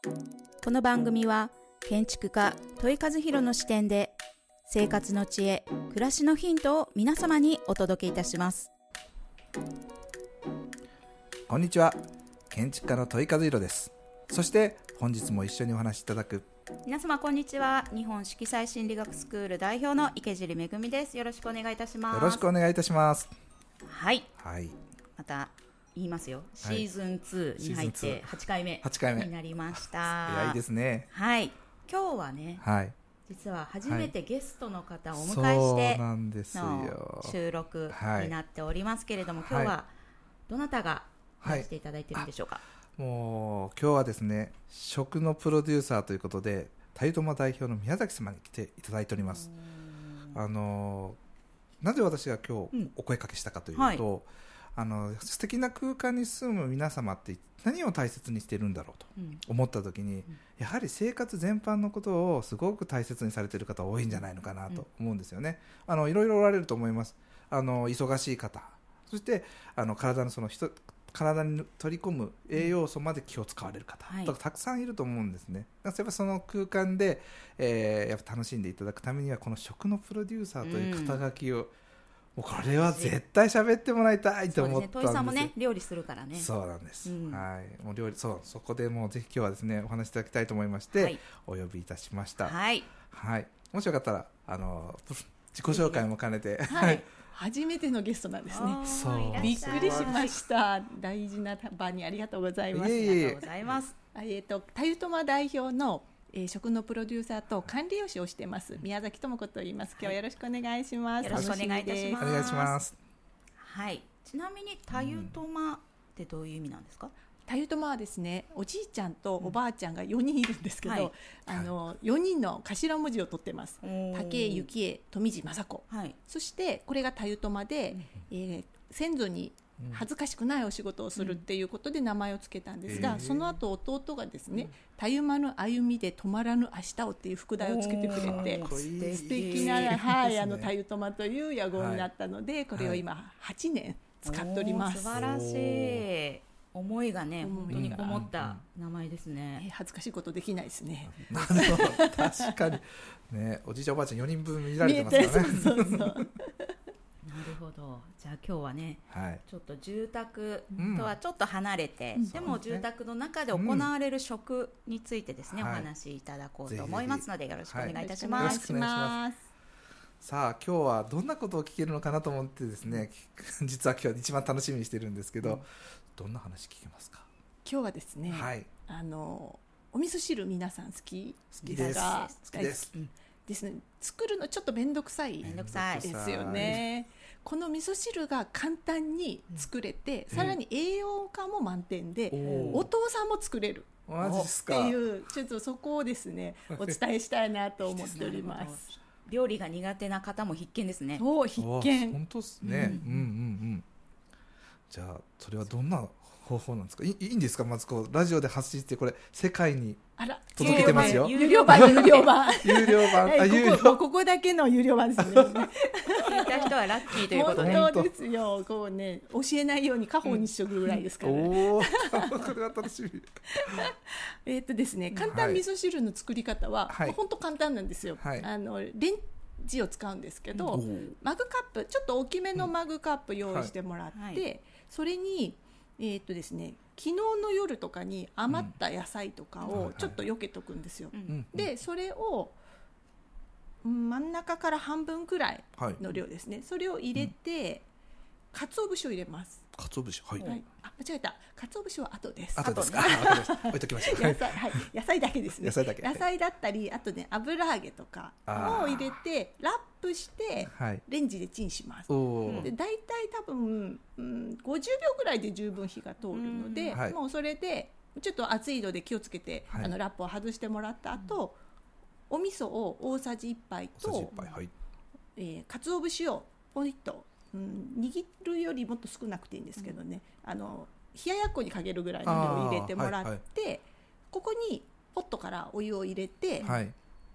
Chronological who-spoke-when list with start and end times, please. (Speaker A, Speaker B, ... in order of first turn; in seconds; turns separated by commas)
Speaker A: 0.6-8.7, Speaker B: 11.5-12.0, Speaker B: 12.5-16.5, Speaker A: 16.8-22.5, Speaker B: 22.1-23.3, Speaker A: 23.8-24.3, Speaker B: 24.4-24.8, Speaker A: 25.2-32.6, Speaker B: 26.6-26.9, Speaker B: 27.6-28.3, Speaker B: 28.8-31.1, Speaker B: 32.6-32.9, Speaker A: 33.3-39.9, Speaker B: 33.8-34.1, Speaker B: 35.1-37.4, Speaker B: 37.9-38.4, Speaker B: 39.4-39.7, Speaker A: 40.5-42.6, Speaker B: 41.4-42.3, Speaker B: 43.0-49.5, Speaker A: 49.2-50.4, Speaker B: 50.3-51.2, Speaker B: 51.8-81.7, Speaker A: 53.7-54.0, Speaker A: 59.1-59.4, Speaker A: 74.0-74.3, Speaker A: 80.6-81.2, Speaker B: 82.3-85.5, Speaker A: 82.5-83.1, Speaker A: 84.5-86.5, Speaker B: 86.3-92.5, Speaker A: 87.0-87.4, Speaker A: 90.9-91.2, Speaker A: 92.4-92.9, Speaker B: 93.1-97.0, Speaker A: 95.7-96.0, Speaker A: 96.7-97.0, Speaker C: 96.7-103.4, Speaker A: 98.5-100.4, Speaker B: 98.8-100.3, Speaker B: 102.7-103.8, Speaker A: 103.0-103.9, Speaker C: 104.1-112.6, Speaker A: 111.2-112.8, Speaker B: 111.3-111.6, Speaker B: 112.2-113.0, Speaker A: 113.6-117.1, Speaker B: 114.9-115.4, Speaker C: 117.5-145.2, Speaker A: 120.8-121.1, Speaker A: 123.8-124.7, Speaker A: 125.9-126.2, Speaker B: 129.8-130.0, Speaker A: 131.2-131.4, Speaker B: 132.9-133.6, Speaker A: 132.9-133.2, Speaker A: 137.6-140.0, Speaker B: 138.1-140.7, Speaker B: 141.7-142.1, Speaker B: 142.7-143.0, Speaker A: 144.2-149.7, Speaker B: 145.1-146.1, Speaker C: 147.4-148.1, Speaker B: 147.7-148.6, Speaker C: 149.6-152.5, Speaker B: 151.1-156.3, Speaker A: 151.2-151.9, Speaker C: 154.8-156.6, Speaker A: 155.4-156.0, Speaker A: 157.2-168.6, Speaker B: 159.1-159.4, Speaker B: 160.8-161.2, Speaker C: 162.1-162.6, Speaker B: 162.3-162.9, Speaker B: 163.5-163.9, Speaker B: 165.5-165.9, Speaker B: 166.7-169.2, Speaker C: 168.0-169.5, Speaker B: 170.2-175.6, Speaker B: 176.1-177.3, Speaker C: 177.6-182.9, Speaker B: 178.3-178.7, Speaker B: 181.6-182.9, Speaker A: 181.6-182.4, Speaker C: 183.5-198.9, Speaker A: 185.4-186.8, Speaker B: 185.4-186.8, Speaker B: 190.3-190.6, Speaker B: 192.3-192.9, Speaker A: 192.4-192.8, Speaker B: 194.1-195.0, Speaker A: 197.8-201.2, Speaker C: 201.2-202.2, Speaker B: 201.6-203.8, Speaker A: 202.6-203.3, Speaker C: 202.7-203.0, Speaker B: 204.9-214.0, Speaker C: 210.2-222.5, Speaker A: 210.6-212.5, Speaker B: 215.2-215.7, Speaker A: 216.2-217.9, Speaker B: 217.5-218.1, Speaker B: 221.2-223.3, Speaker C: 223.5-242.6, Speaker A: 225.1-225.4, Speaker B: 225.3-225.6, Speaker B: 226.9-227.2, Speaker B: 228.2-228.5, Speaker B: 230.7-231.2, Speaker B: 233.4-233.7, Speaker A: 234.1-234.4, Speaker B: 238.5-238.7, Speaker B: 239.7-240.2, Speaker A: 241.1-241.4, Speaker B: 241.3-241.7, Speaker C: 243.8-247.9, Speaker C: 248.5-249.7, Speaker B: 249.7-250.4, Speaker C: 250.4-271.6, Speaker A: 252.6-253.3, Speaker B: 252.6-254.6, Speaker B: 255.6-256.2, Speaker B: 258.5-259.1, Speaker A: 258.5-258.9, Speaker B: 260.6-261.0, Speaker B: 262.1-262.7, Speaker A: 262.4-262.7, Speaker A: 266.3-267.0, Speaker C: 272.3-274.3, Speaker B: 274.0-274.7, Speaker A: 274.3-274.6, Speaker C: 275.4-286.7, Speaker B: 282.2-283.4, Speaker A: 286.6-286.9, Speaker B: 286.6-286.9